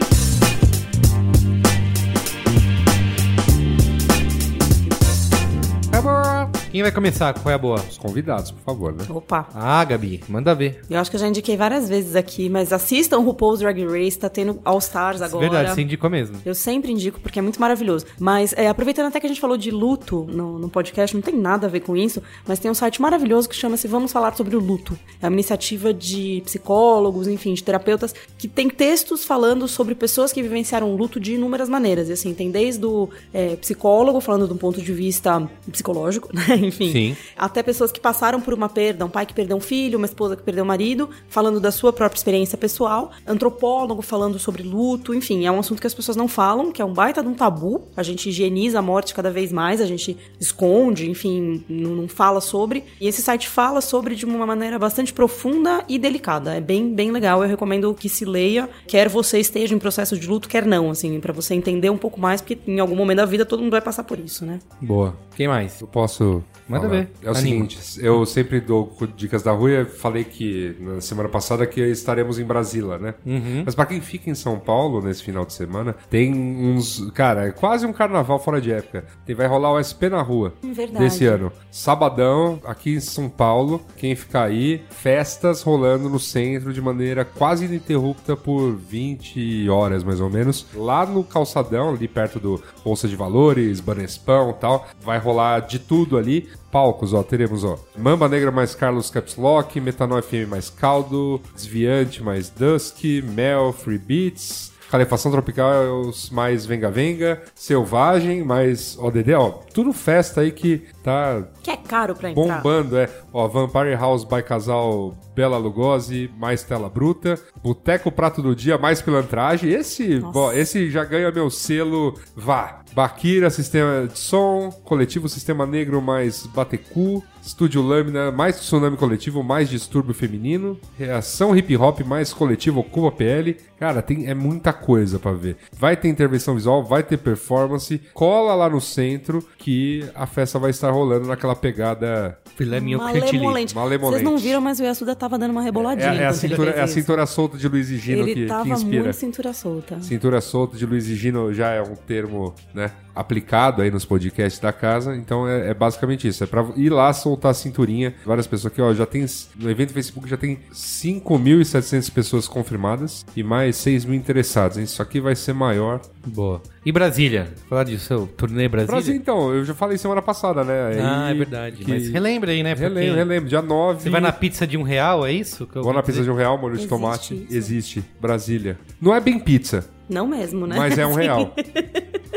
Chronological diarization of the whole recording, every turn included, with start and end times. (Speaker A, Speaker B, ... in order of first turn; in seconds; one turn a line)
Speaker A: 5.9-7.9
Speaker B: 7.9-9.1
Speaker C: 9.1-9.5
Speaker A: 9.5-10.8
Speaker C: 10.9-15.8
Speaker A: 15.2-16.4
Speaker C: 16.4-64.6
Speaker A: 36.9-37.2
Speaker A: 64.8-65.8
Speaker B: 65.8-111.5
Speaker A: 66.7-67.7
Speaker A: 73.2-73.7
Speaker C: 80.6-81.4
Speaker C: 111.6-112.7
Speaker B: 112.3-142.4
Speaker C: 120.2-120.6
Speaker A: 142.6-143.6
Speaker C: 142.7-147.1
Speaker B: 143.7-144.6
Speaker B: 145.7-149.2
Speaker A: 146.0-146.7
Speaker C: 148.1-150.1
Speaker B: 150.0-166.0
Speaker A: 166.2-169.2
Speaker B: 168.8-174.4
Speaker A: 170.9-173.3
Speaker A: 174.0-176.2
Speaker B: 175.8-179.9
Speaker C: 176.8-177.7
Speaker C: 180.1-182.2
Speaker B: 180.7-181.5